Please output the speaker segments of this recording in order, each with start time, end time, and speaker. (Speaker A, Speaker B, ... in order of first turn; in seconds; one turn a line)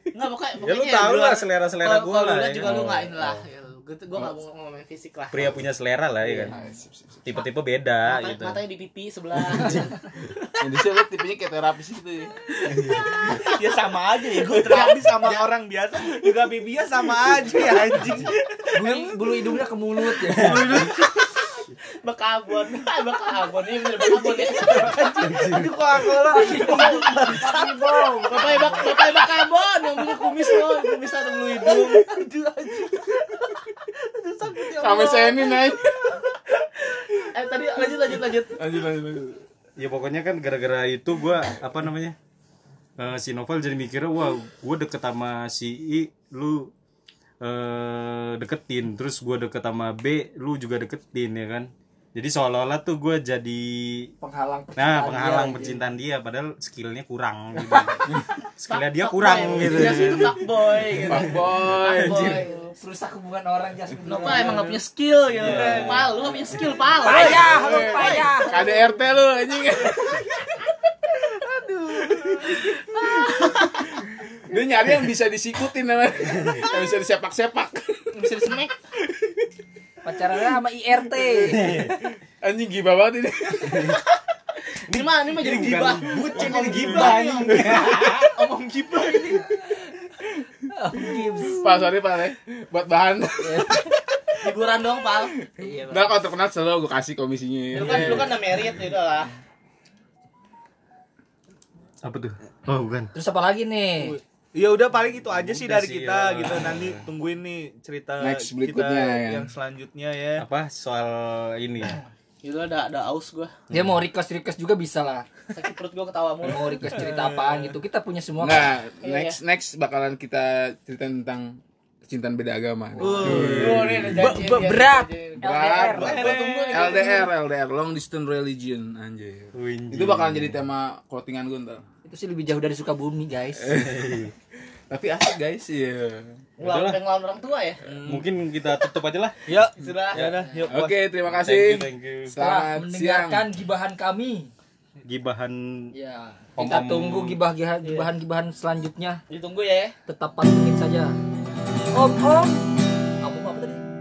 Speaker A: 0.1-5.5
Speaker B: 0.6-3.4
Speaker B: 5.3-6.6
Speaker C: 6.3-7.2
Speaker B: 7.2-8.6
Speaker A: 8.1-10.0
Speaker B: 9.5-9.9
Speaker C: 10.6-12.4
Speaker B: 12.7-13.2
Speaker C: 12.9-13.3
Speaker D: 13.2-19.0
Speaker A: 14.7-15.5
Speaker E: 18.7-20.9
Speaker D: 20.3-21.3
Speaker B: 20.3-20.9
Speaker A: 20.4-21.2
Speaker A: 22.0-25.3
Speaker E: 24.0-25.1
Speaker D: 24.6-28.2
Speaker B: 25.2-25.8
Speaker E: 26.3-29.0
Speaker A: 26.3-27.1
Speaker A: 28.3-32.2
Speaker D: 30.0-30.9
Speaker D: 31.6-37.2
Speaker C: 34.8-36.0
Speaker A: 37.3-38.6
Speaker C: 38.5-39.4
Speaker B: 39.8-42.1
Speaker B: 43.0-46.7
Speaker B: 47.4-54.1
Speaker E: 54.2-55.8
Speaker B: 54.8-60.4
Speaker A: 58.7-62.7
Speaker B: 61.0-61.3
Speaker C: 61.0-62.4
Speaker B: 61.9-62.4
Speaker E: 62.0-64.8
Speaker A: 64.1-68.8
Speaker B: 65.4-66.2
Speaker D: 65.5-66.0
Speaker E: 67.0-68.9
Speaker C: 67.2-70.3
Speaker C: 72.9-73.2
Speaker C: 74.5-78.1
Speaker B: 76.3-76.7
Speaker A: 78.1-78.8
Speaker E: 80.0-81.9
Speaker B: 81.4-82.0
Speaker C: 82.4-84.0
Speaker B: 83.7-84.0
Speaker B: 84.9-88.3
Speaker A: 84.9-89.5
Speaker E: 90.7-91.7
Speaker C: 91.6-93.9
Speaker E: 93.4-94.0
Speaker A: 94.4-95.4
Speaker E: 95.6-96.1
Speaker C: 95.6-98.4
Speaker A: 97.7-99.3
Speaker D: 97.8-98.3
Speaker B: 102.0-103.1
Speaker E: 103.1-104.2
Speaker D: 104.0-110.5
Speaker B: 105.3-107.1
Speaker C: 108.2-109.5
Speaker B: 110.4-112.0
Speaker A: 112.4-113.5
Speaker B: 113.7-114.0
Speaker E: 113.7-115.3
Speaker A: 115.5-117.1
Speaker E: 116.4-118.7
Speaker D: 116.9-117.8
Speaker C: 118.4-124.4
Speaker A: 119.0-119.4
Speaker E: 123.0-126.3
Speaker D: 123.0-123.8
Speaker B: 123.2-124.2
Speaker A: 123.4-127.3
Speaker C: 125.4-131.8
Speaker D: 126.0-127.2
Speaker B: 129.5-130.6
Speaker E: 132.1-133.9
Speaker C: 133.6-134.3
Speaker B: 133.7-134.3
Speaker C: 134.9-136.4
Speaker A: 136.6-137.8
Speaker B: 136.6-137.0
Speaker B: 138.0-139.5
Speaker D: 139.5-141.0
Speaker A: 139.8-140.2
Speaker B: 140.1-140.4
Speaker C: 140.7-143.4
Speaker B: 141.4-142.3
Speaker E: 142.4-144.5
Speaker B: 145.1-145.9
Speaker E: 145.9-149.2
Speaker B: 146.6-147.4
Speaker A: 147.8-148.1
Speaker A: 149.3-149.9
Speaker E: 150.1-151.2
Speaker E: 151.9-152.7
Speaker E: 153.2-153.8